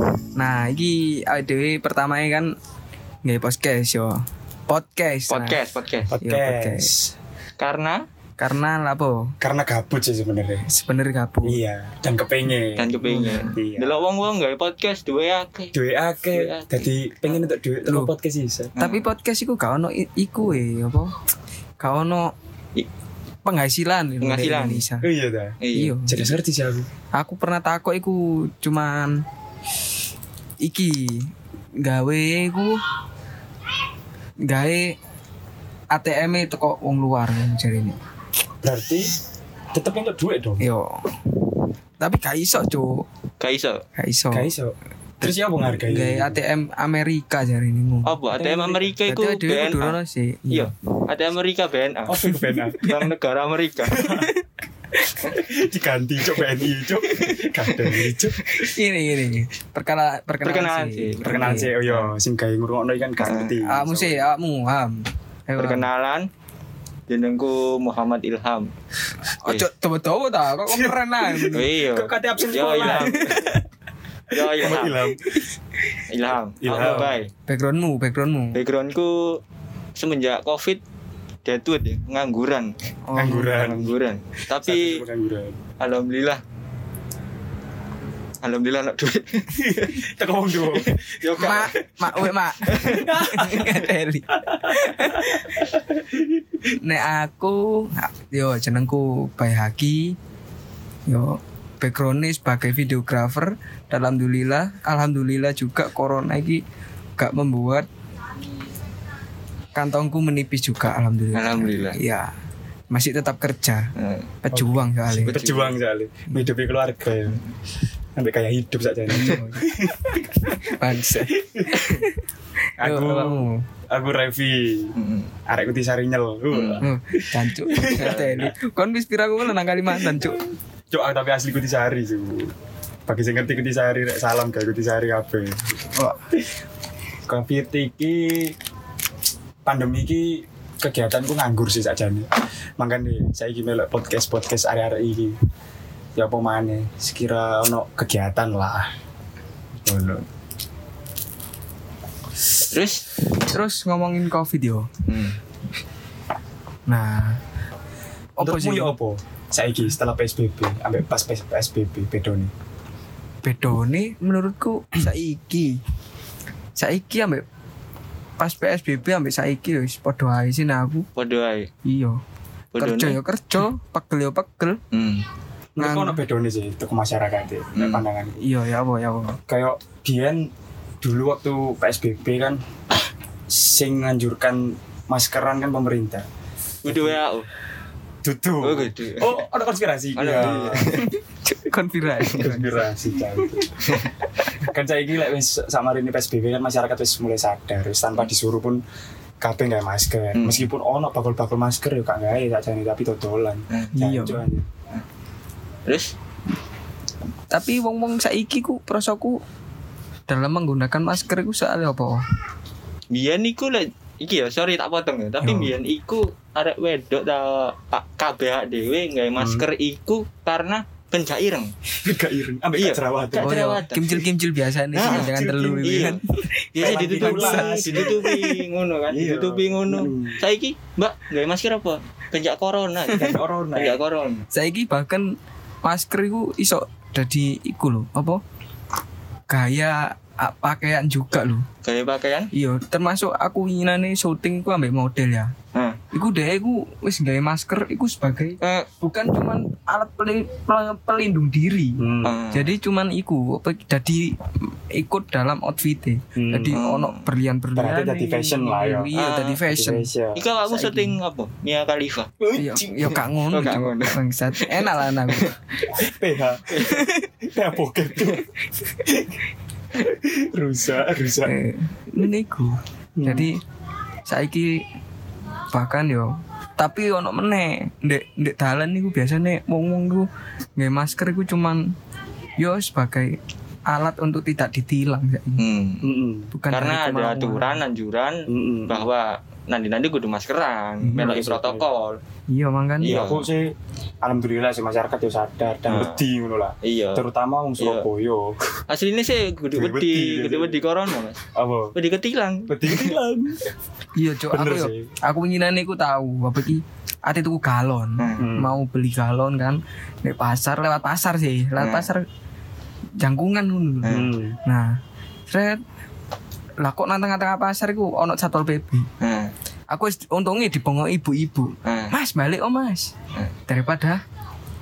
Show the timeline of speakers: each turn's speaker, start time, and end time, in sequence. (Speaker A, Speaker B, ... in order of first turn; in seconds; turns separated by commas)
Speaker A: 0.3-2.5, Speaker A: 3.2-5.6, Speaker B: 5.3-6.1, Speaker C: 6.1-7.1, Speaker A: 6.2-6.9, Speaker B: 7.6-8.0, Speaker A: 8.4-9.3, Speaker C: 9.4-10.7, Speaker A: 10.7-11.6, Speaker C: 11.4-14.0, Speaker B: 12.8-15.7, Speaker A: 13.0-13.6, Speaker C: 15.7-18.8, Speaker B: 16.3-17.5, Speaker A: 17.9-18.1, Speaker B: 18.8-19.1, Speaker A: 18.8-21.1, Speaker A: 21.8-22.3, Speaker A: 23.4-25.1, Speaker B: 24.2-24.9, Speaker C: 25.0-26.9, Speaker B: 25.6-26.0, Speaker A: 25.7-26.3, Speaker A: 27.1-29.1, Speaker A: 30.6-32.8, Speaker A: 34.5-35.0, Speaker A: 35.9-38.0, Speaker C: 38.6-39.1, Speaker C: 39.7-40.6, Speaker A: 40.6-41.4, Speaker A: 42.0-43.0, Speaker B: 43.4-43.8, Speaker A: 44.0-44.5, Speaker C: 44.3-46.4, Speaker A: 45.2-50.7, Speaker B: 48.1-50.0, Speaker B: 50.5-52.2, Speaker C: 52.1-52.9, Speaker A: 52.3-53.0, Speaker B: 52.8-54.0, Speaker C: 53.9-54.3, Speaker A: 54.0-54.4, Speaker A: 55.0-55.4, Speaker C: 55.4-58.4, Speaker A: 57.1-61.7, Speaker B: 60.4-62.1, Speaker C: 61.2-64.3, Speaker B: 63.2-63.6, Speaker A: 63.7-65.9, Speaker B: 65.6-66.3, Speaker B: 67.1-68.7, Speaker A: 69.4-71.7, Speaker C: 70.7-73.4, Speaker B: 71.5-73.5, Speaker A: 72.6-73.6, Speaker B: 74.3-75.0, Speaker C: 74.5-75.5, Speaker B: 76.1-77.3, Speaker C: 76.6-77.2, Speaker A: 76.8-78.6, Speaker B: 78.5-79.4, Speaker B: 80.0-80.8, Speaker B: 81.5-82.7, Speaker A: 83.1-83.6, Speaker C: 83.2-84.0, Speaker B: 83.5-85.0, Speaker C: 84.6-85.6, Speaker B: 85.8-86.4, Speaker B: 88.4-90.0, Speaker C: 89.5-91.6, Speaker B: 90.7-93.2, Speaker A: 91.4-95.7, Speaker C: 92.7-93.9, Speaker C: 94.4-96.4, Speaker A: 96.8-100.2, Speaker A: 101.1-106.6, Speaker A: 107.2-107.9, Speaker A: 109.8-112.3, Speaker B: 111.3-112.0, Speaker A: 112.9-113.9, Speaker B: 114.0-114.3, Speaker A: 114.4-115.4, Speaker C: 114.5-117.4, Speaker B: 115.2-115.8, Speaker C: 118.2-120.5, Speaker A: 119.1-119.7, Speaker A: 120.6-122.2, Speaker C: 121.3-121.8, Speaker B: 121.8-122.0, Speaker C: 122.8-124.9, Speaker A: 122.8-123.6, Speaker B: 125.0-125.3, Speaker C: 125.5-128.5, Speaker B: 126.5-126.9, Speaker A: 126.8-130.5, Speaker B: 127.8-128.5, Speaker C: 130.0-130.3, Speaker C: 130.9-132.5, Speaker C: 133.1-135.6, Speaker A: 135.9-136.2, Speaker C: 137.3-138.6, Speaker C: 139.7-142.3, Speaker C: 142.8-145.4, Speaker C: 146.2-148.9, Speaker C: 149.8-150.2, Speaker B: 152.7-153.2, Speaker A: 153.5-154.9, Speaker B: 155.1-155.4, Speaker A: 156.9-157.4, Speaker A: 158.4-158.9, Speaker C: 158.4-162.5, Speaker A: 163.4-165.8, Speaker A: 166.8-167.4, Speaker A: 168.4-171.1, Speaker B: 171.2-171.7, Speaker A: 171.8-172.2, Speaker B: 172.7-173.6, Speaker A: 172.8-174.8, Speaker B: 174.9-175.2, Speaker C: 175.8-178.4, Speaker A: 175.8-176.2, Speaker B: 177.8-178.1, Speaker A: 178.4-179.4, Speaker C: 179.5-180.5, Speaker C: 181.0-182.6, Speaker C: 183.5-186.3, Speaker B: 186.8-187.5, Speaker C: 186.9-187.2, Speaker C: 188.2-191.0, Speaker B: 188.6-189.4, Speaker B: 190.2-191.1, Speaker A: 191.0-194.5, Speaker C: 192.3-193.7, Speaker C: 194.7-198.8, Speaker C: 199.4-204.7, Speaker B: 200.3-200.7, Speaker A: 203.9-204.4, Speaker B: 205.9-206.1, Speaker A: 207.5-209.4, Speaker A: 210.3-212.2, Speaker B: 213.1-221.7, Speaker A: 215.4-215.7, Speaker C: 219.4-219.7, Speaker C: 222.0-223.6, Speaker B: 222.8-224.2, Speaker A: 223.4-228.6, Speaker B: 224.9-226.2, Speaker C: 225.0-226.2, Speaker B: 226.8-234.4, Speaker C: 226.8-228.2, Speaker C: 229.1-230.4, Speaker C: 233.2-234.0, Speaker A: 234.5-235.2, Speaker A: 235.8-238.4, Speaker A: 239.5-241.7, Speaker B: 241.8-242.5, Speaker A: 242.5-245.5, Speaker A: 246.1-254.4, Speaker B: 248.6-248.9, Speaker C: 252.0-252.4, Speaker B: 252.2-252.8, Speaker A: 254.9-260.1, Speaker C: 256.4-256.8, Speaker B: 256.7-257.2, Speaker C: 257.8-259.1, Speaker B: 259.1-259.6, Speaker C: 259.7-260.4, Speaker B: 260.4-265.5, Speaker A: 260.7-261.2, Speaker A: 262.5-265.5, Speaker C: 266.0-266.9, Speaker B: 266.7-267.0, Speaker A: 266.8-267.3, Speaker C: 267.4-268.4, Speaker C: 269.9-271.5, Speaker A: 271.4-273.6, Speaker C: 273.2-273.5, Speaker A: 274.3-274.8, Speaker A: 275.7-281.8, Speaker A: 282.6-283.4, Speaker A: 283.9-285.6, Speaker B: 285.6-286.1, Speaker C: 286.0-286.5, Speaker A: 286.5-287.8, Speaker B: 286.7-292.2, Speaker C: 288.5-289.1, Speaker C: 291.0-291.9, Speaker A: 292.5-293.2, Speaker B: 293.0-293.5, Speaker C: 293.1-298.6, Speaker B: 295.9-296.2, Speaker B: 296.8-297.2, Speaker B: 297.8-298.1, Speaker B: 298.9-301.4, Speaker C: 299.7-300.9, Speaker C: 301.6-301.9, Speaker B: 301.9-303.2, Speaker C: 302.7-303.6, Speaker A: 304.2-312.2, Speaker C: 304.5-305.1, Speaker B: 308.2-308.5, Speaker C: 308.4-308.7, Speaker B: 311.8-312.1, Speaker A: 313.2-314.9, Speaker B: 314.0-314.3, Speaker C: 314.1-314.6, Speaker A: 315.5-315.8, Speaker A: 316.8-319.1, Speaker B: 319.2-319.5, Speaker A: 319.9-323.1, Speaker B: 321.9-322.1, Speaker A: 323.7-324.2